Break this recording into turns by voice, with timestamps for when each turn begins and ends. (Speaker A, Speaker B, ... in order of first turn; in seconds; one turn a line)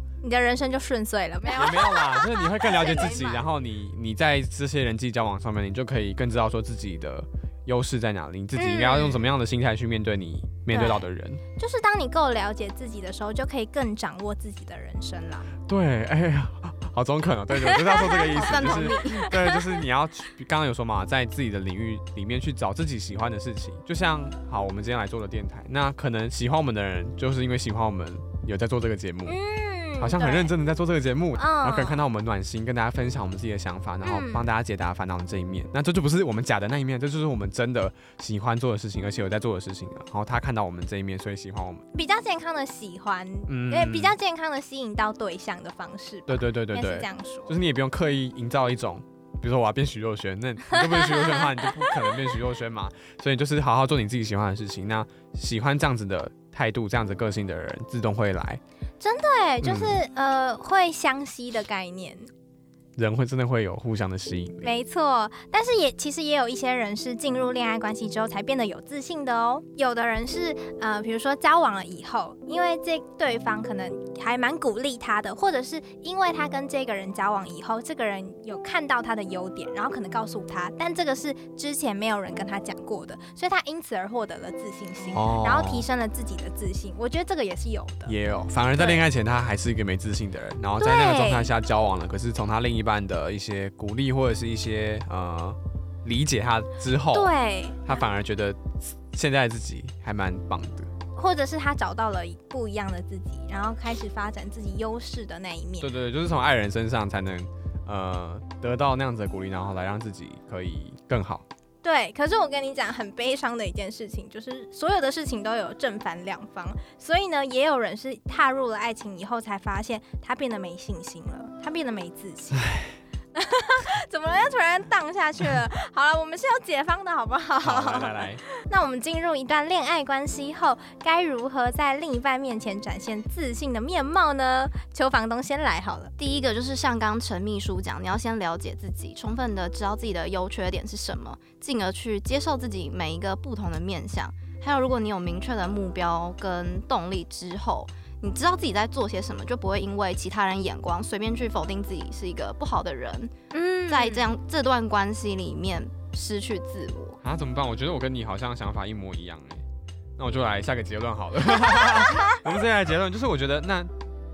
Speaker A: 0.2-2.0
Speaker B: 1.5-3.5
Speaker C: 1.5-11.4
Speaker A: 8.6-9.2
Speaker A: 10.7-11.0
Speaker A: 11.6-15.5
Speaker C: 15.7-29.4
Speaker A: 17.6-18.4
Speaker B: 18.3-19.3
Speaker A: 19.3-19.6
Speaker A: 29.2-30.5
Speaker C: 30.0-41.9
Speaker A: 31.4-32.0
Speaker A: 34.0-34.5
Speaker A: 41.9-47.5
Speaker C: 43.5-44.2
Speaker C: 46.3-58.6
Speaker A: 50.7-51.6
Speaker A: 59.0-62.3
Speaker C: 59.6-60.0
Speaker C: 63.0-64.7
Speaker A: 64.6-88.1
Speaker C: 85.1-85.8
Speaker C: 88.0-97.3
Speaker A: 88.8-89.0
Speaker A: 90.8-91.5
Speaker A: 97.1-98.0
Speaker C: 97.8-100.9
Speaker A: 101.2-105.9
Speaker C: 105.8-111.4
Speaker A: 111.8-122.8
Speaker A: 123.3-136.1
Speaker C: 127.6-128.4
Speaker B: 136.2-153.3
Speaker A: 153.5-154.3
Speaker B: 153.9-157.2
Speaker C: 157.2-159.6
Speaker C: 160.2-163.9